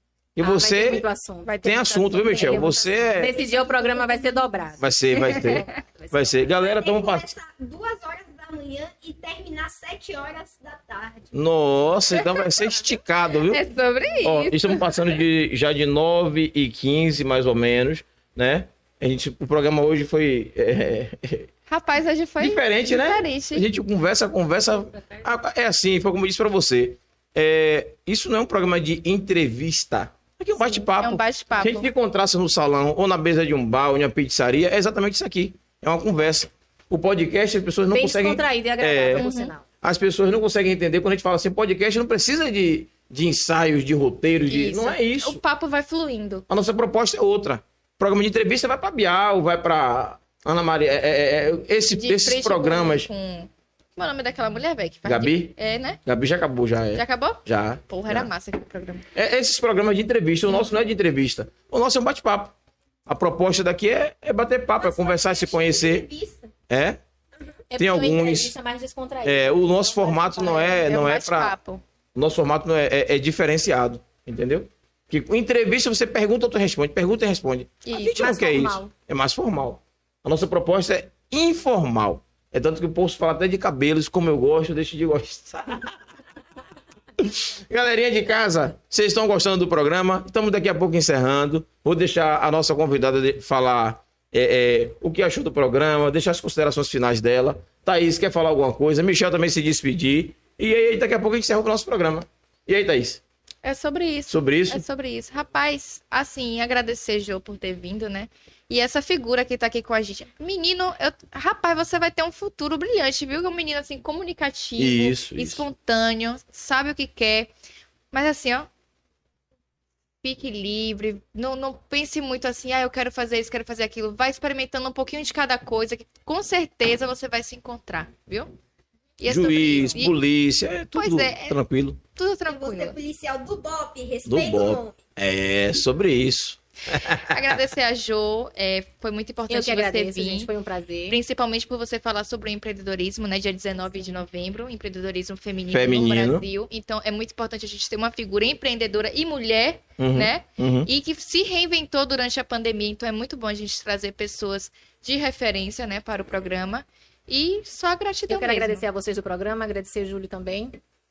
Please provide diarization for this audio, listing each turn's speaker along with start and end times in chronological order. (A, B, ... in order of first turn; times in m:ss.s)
0:00.4-0:01.0 A
0:00.4-0:06.3 B
0:01.4-0:01.9 C
0:01.6-0:03.4 A
0:03.2-0:04.5 D
0:04.8-0:07.3 A
0:05.3-0:05.7 C
0:06.4-0:11.3 D
0:11.3-0:13.6 A
0:13.5-0:15.1 C
0:14.2-0:21.5 A
0:21.7-0:23.7 C
0:22.4-0:39.3 A
0:30.7-0:31.9 C
0:37.9-0:39.6 B
0:39.2-0:39.5 C
0:39.8-0:45.4 A
0:44.5-0:46.4 C
0:46.5-0:53.1 A
0:51.9-0:56.0 C
0:55.0-0:58.3 A
0:57.0-0:59.0 C
0:59.2-1:02.6 A
1:03.1-1:06.1 A
1:04.8-1:06.5 D
1:06.7-1:07.0 A
1:07.7-1:10.9 B
1:07.8-1:08.5 A
1:09.2-1:11.6 A
1:10.8-1:11.8 C
1:12.2-1:26.0 A
1:17.8-1:18.4 C
1:18.1-1:18.9 B
1:27.2-1:43.2 A
1:43.6-1:57.5 C
1:44.3-1:44.8 A
1:54.8-1:55.7 A
1:58.1-1:58.7 C
2:00.2-2:08.5 C
2:09.2-2:10.2 C
2:09.2-2:12.0 A
2:11.0-2:11.6 C
2:12.2-2:13.0 C
2:12.5-2:15.0 D
2:14.2-2:17.4 A
2:17.3-2:20.5 C
2:19.5-2:21.2 B
2:21.1-2:38.8 C
2:25.7-2:26.4 A
2:30.0-2:30.9 A
2:38.3-2:40.8 B